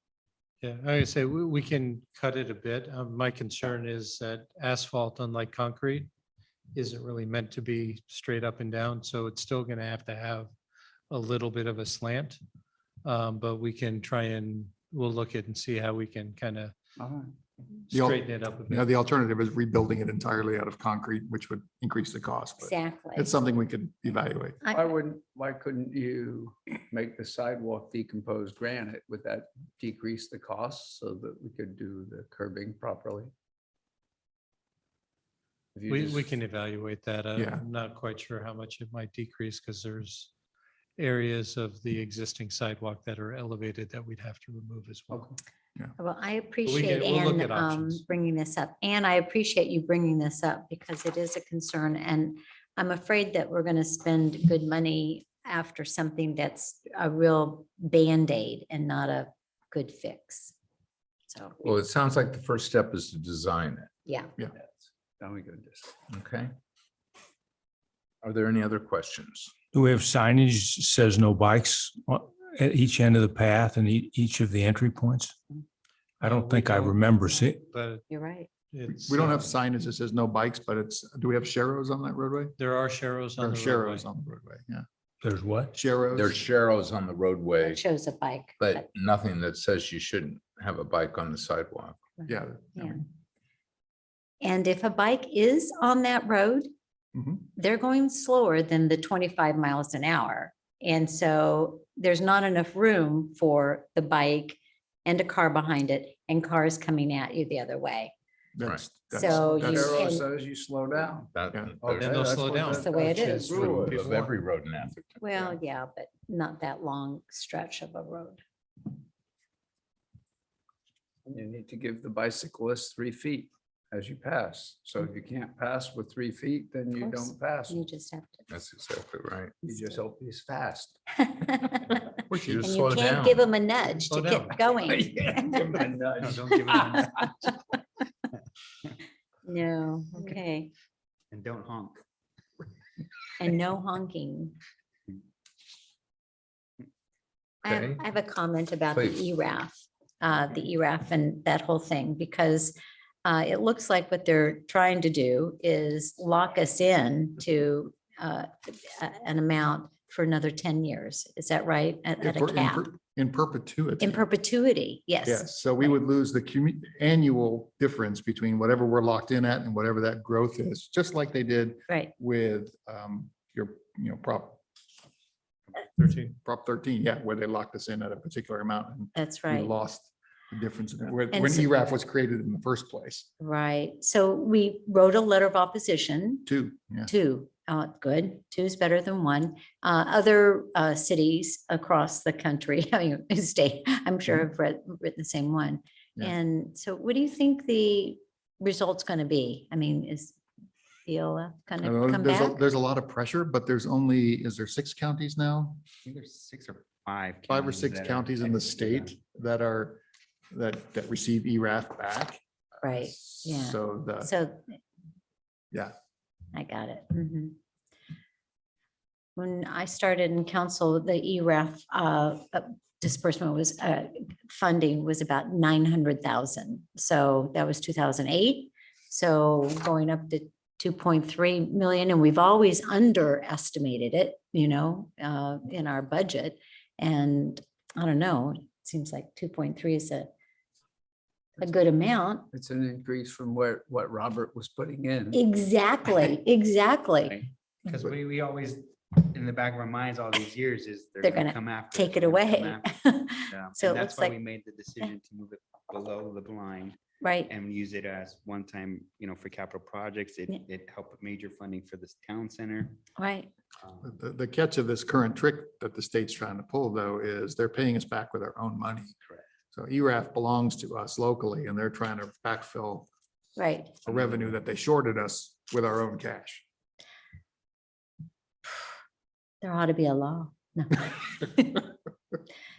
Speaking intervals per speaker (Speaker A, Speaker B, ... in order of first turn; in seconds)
Speaker A: 0.6-6.1, 6.7-10.5, 11.1-12.4, 13.0-16.7, 17.9-18.9, 35.9-40.3, 41.0-45.3, 46.6-48.0, 76.2-78.1, 78.7-79.5, 82.6-84.1, 112.0-114.3, 134.1-134.6
Speaker B: 17.0-17.3, 24.7-33.3, 35.7-36.3, 45.1-45.4, 65.2-65.9, 109.2-114.1, 121.2-127.8, 129.6-130.9, 134.8-137.1, 242.5-245.4
Speaker C: 17.9-24.6, 37.4-37.6, 78.9-82.5, 83.4-84.8, 85.7-86.4, 92.2-93.0, 97.1-97.4, 108.5-110.1, 132.3-132.7, 162.2-164.2, 165.2-174.6, 176.0-183.3, 186.4-187.1, 201.8-205.8, 207.5-212.4, 212.9-214.3, 264.0-269.1, 269.7-273.1, 274.1-276.6
Speaker D: 22.6-23.3, 24.6-24.9, 46.0-60.5, 61.3-61.5, 64.1-64.3, 78.1-78.5, 87.6-88.8, 92.2-93.0, 94.4-96.7, 97.5-108.1, 109.1-110.2, 112.8-113.5, 115.2-118.4, 126.9-128.5, 131.2-132.0, 132.6-135.6, 136.7-137.5, 139.4-140.7, 143.4-144.6, 147.6-162.9, 164.0-165.9, 179.1-179.7, 181.3-181.7, 183.4-186.5, 187.1-200.4, 201.1-202.6, 212.8-214.8, 216.5-217.5, 219.3-240.3, 241.6-242.5, 245.3-247.3, 251.2-254.3, 257.2-257.5, 263.1-263.5, 273.6-274.1, 279.6-281.9
Speaker E: 61.6-63.9, 66.1-66.5, 68.2-69.5, 86.1-87.8, 88.6-92.0, 108.6-109.0, 111.3-112.8, 113.6-115.6, 128.5-129.6, 132.3-133.5, 147.7-148.0, 148.9-149.3
Speaker F: 69.7-75.3, 76.2-77.6, 85.2-85.7
Speaker G: 136.2-136.6, 141.3-142.0, 206.0-209.2, 247.2-252.8, 253.5-256.9, 257.5-263.0, 274.1-274.5